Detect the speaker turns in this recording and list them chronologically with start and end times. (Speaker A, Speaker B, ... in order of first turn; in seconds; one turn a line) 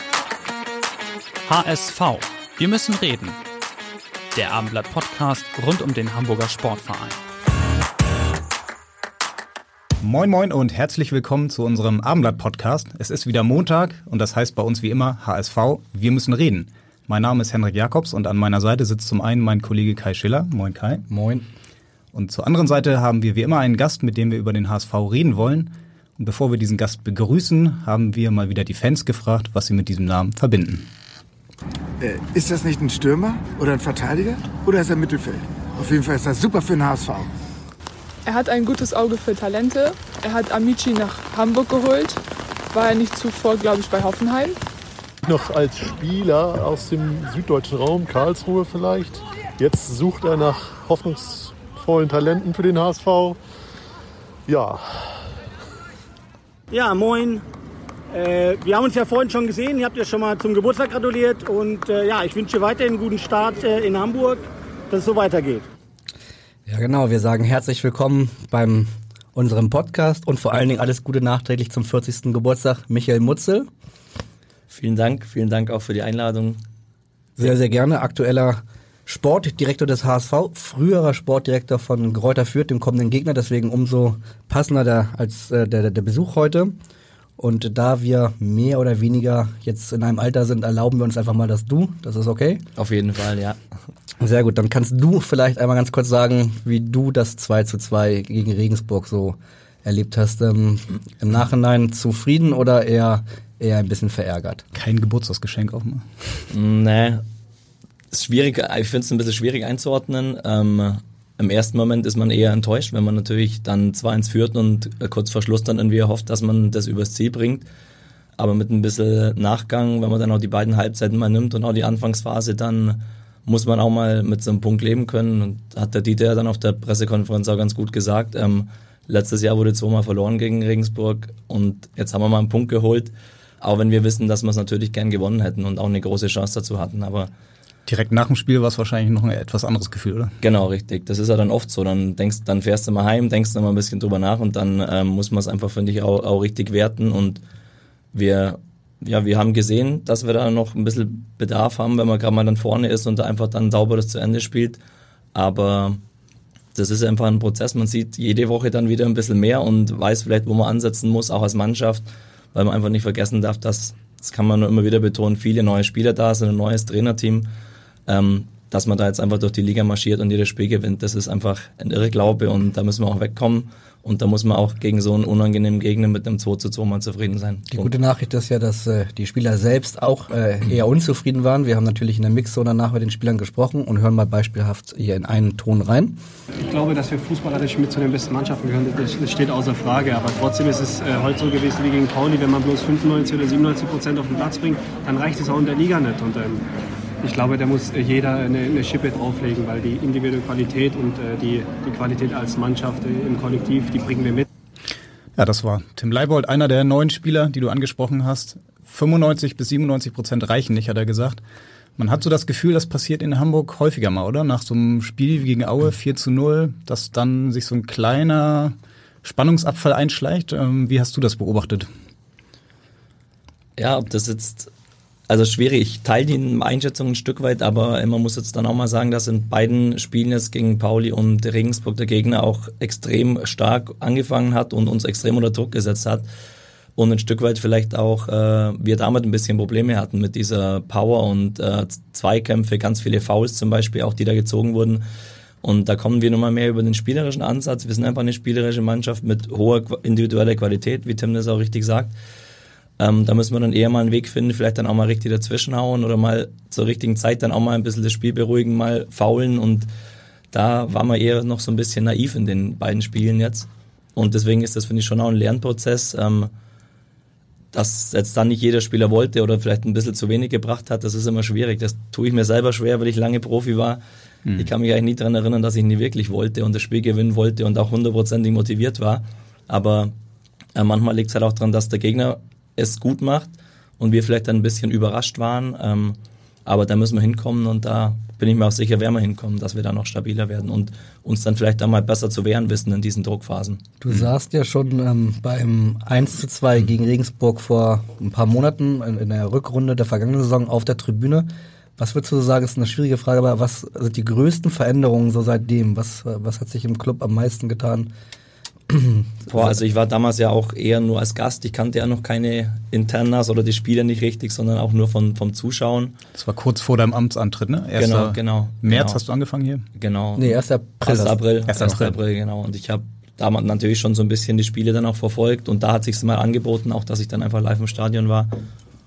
Speaker A: 1.4-3.4
Speaker A: 4.3-7.2
Speaker B: 10.0-21.1
Speaker C: 21.1-21.4
Speaker B: 22.1-30.9
Speaker D: 32.0-37.3
Speaker E: 38.2-44.6
Speaker F: 45.2-53.4
Speaker F: 54.5-54.8
Speaker G: 56.7-57.4
Speaker G: 58.1-65.6
Speaker C: 66.7-73.7
Speaker H: 74.7-76.6
Speaker C: 77.4-86.8
Speaker C: 87.4-92.6
Speaker H: 92.8-93.6
Speaker C: 94.2-104.6
Speaker B: 104.7-106.1
Speaker H: 106.5-107.2
Speaker H: 108.1-117.7
Speaker H: 118.4-137.3
Speaker B: 137.9-140.3
Speaker H: 140.4-147.4
Speaker H: 148.1-154.8
Speaker H: 155.3-156.0
Speaker H: 156.8-167.5
Speaker H: 168.1-177.9
Speaker C: 177.7-186.2
Speaker I: 186.6-196.6
Speaker I: 197.2-204.4
Speaker B: 205.4-211.4
Speaker B: 212.0-221.9
Speaker H: 223.8-224.7
Speaker H: 225.3-236.3
Speaker H: 237.0-245.1
Speaker H: 245.6-252.2
Speaker H: 253.0-259.9
Speaker H: 260.5-266.5
Speaker H: 267.7-274.0
Speaker B: 274.5-274.7
Speaker H: 274.6-280.1
Speaker H: 280.8-293.9
Speaker C: 294.0-308.1
Speaker C: 308.9-309.3
Speaker H: 309.5-316.2
Speaker B: 316.4-319.8
Speaker H: 318.0-319.2
Speaker H: 320.0-328.5
Speaker C: 320.4-321.4
Speaker B: 321.7-322.2